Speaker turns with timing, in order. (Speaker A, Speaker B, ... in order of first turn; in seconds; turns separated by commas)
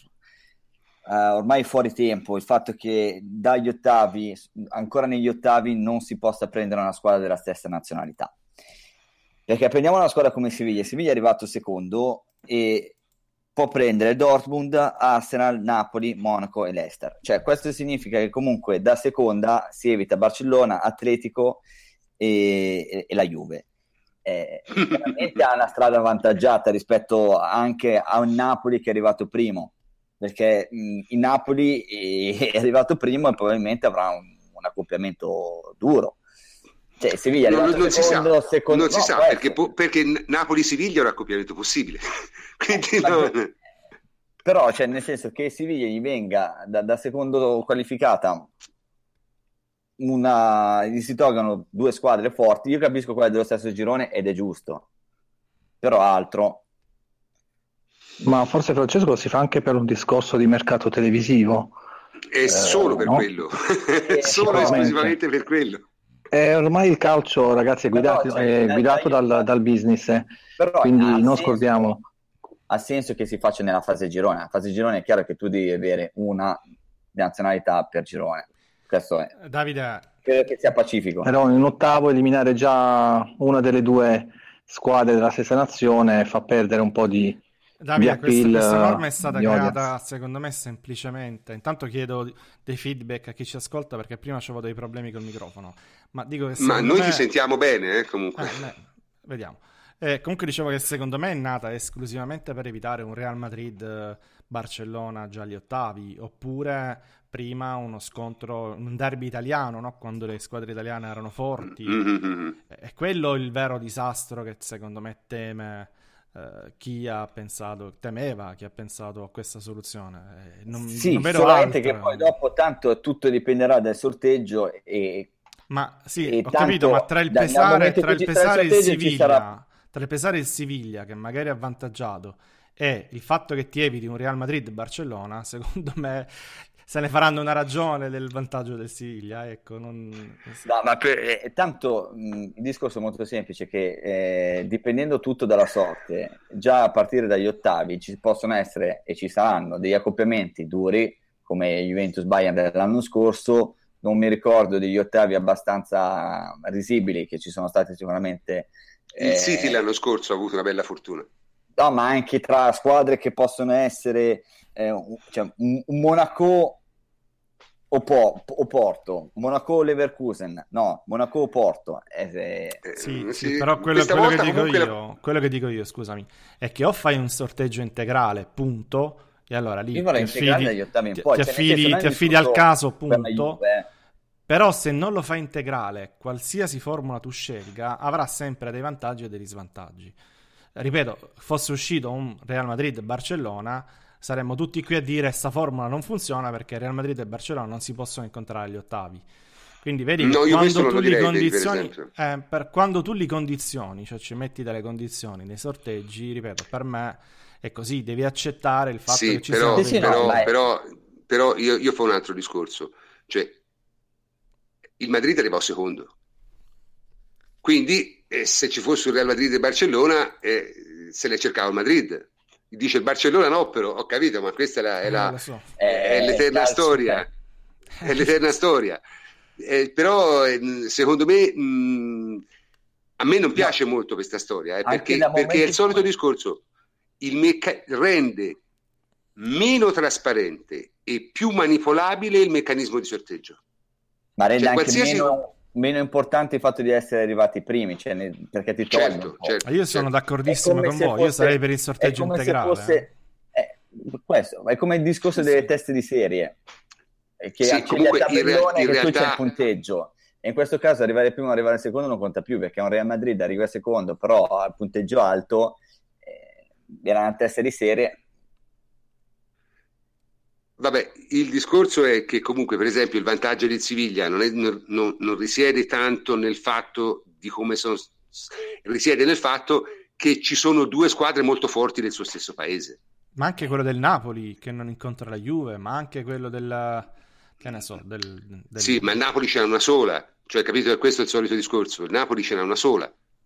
Speaker A: 1.1-8.3, Speaker A: 9.5-12.9, Speaker A: 13.6-21.6, Speaker A: 22.2-23.6, Speaker A: 24.2-36.2, Speaker A: 37.0-39.6, Speaker B: 37.5-42.0, Speaker B: 42.6-43.5, Speaker A: 43.0-43.3, Speaker A: 44.5-48.5, Speaker A: 50.0-54.9, Speaker A: 55.8-56.6, Speaker C: 58.2-61.8, Speaker B: 62.3-65.9, Speaker C: 62.4-63.3, Speaker A: 64.1-65.1, Speaker C: 64.3-65.1, Speaker C: 66.3-70.3, Speaker A: 67.9-69.4, Speaker A: 70.6-71.6, Speaker C: 70.8-72.0, Speaker A: 72.7-76.6, Speaker A: 77.1-79.3, Speaker D: 79.4-80.1, Speaker A: 80.2-81.3, Speaker C: 81.2-87.4, Speaker D: 87.8-97.2, Speaker C: 88.0-89.9, Speaker B: 96.6-98.6, Speaker D: 98.4-112.1, Speaker B: 111.9-112.6, Speaker D: 112.7-122.3, Speaker A: 120.7-125.3, Speaker D: 125.7-136.3, Speaker A: 126.2-129.5, Speaker D: 136.8-140.6, Speaker A: 140.6-159.8, Speaker B: 159.2-161.3, Speaker A: 161.8-166.8, Speaker A: 167.9-172.8, Speaker B: 172.9-174.9, Speaker D: 173.0-183.6, Speaker A: 179.9-183.9, Speaker D: 184.5-190.2, Speaker D: 190.8-199.2, Speaker D: 199.8-210.4, Speaker B: 200.2-202.1, Speaker B: 209.1-213.6, Speaker A: 209.7-210.5, Speaker B: 215.0-216.1, Speaker B: 217.6-227.3, Speaker D: 225.0-225.7, Speaker A: 225.8-227.3, Speaker B: 228.0-229.0, Speaker B: 229.6-232.4, Speaker B: 233.2-236.6, Speaker A: 234.8-236.1, Speaker B: 237.2-238.6, Speaker B: 239.4-243.6, Speaker A: 244.4-249.6, Speaker B: 244.6-245.4, Speaker B: 248.9-250.1, Speaker D: 249.7-253.1, Speaker A: 250.5-256.6, Speaker A: 257.4-268.2, Speaker B: 257.6-259.4, Speaker B: 270.8-283.0, Speaker D: 283.4-287.1, Speaker D: 287.6-289.2, Speaker B: 288.8-293.1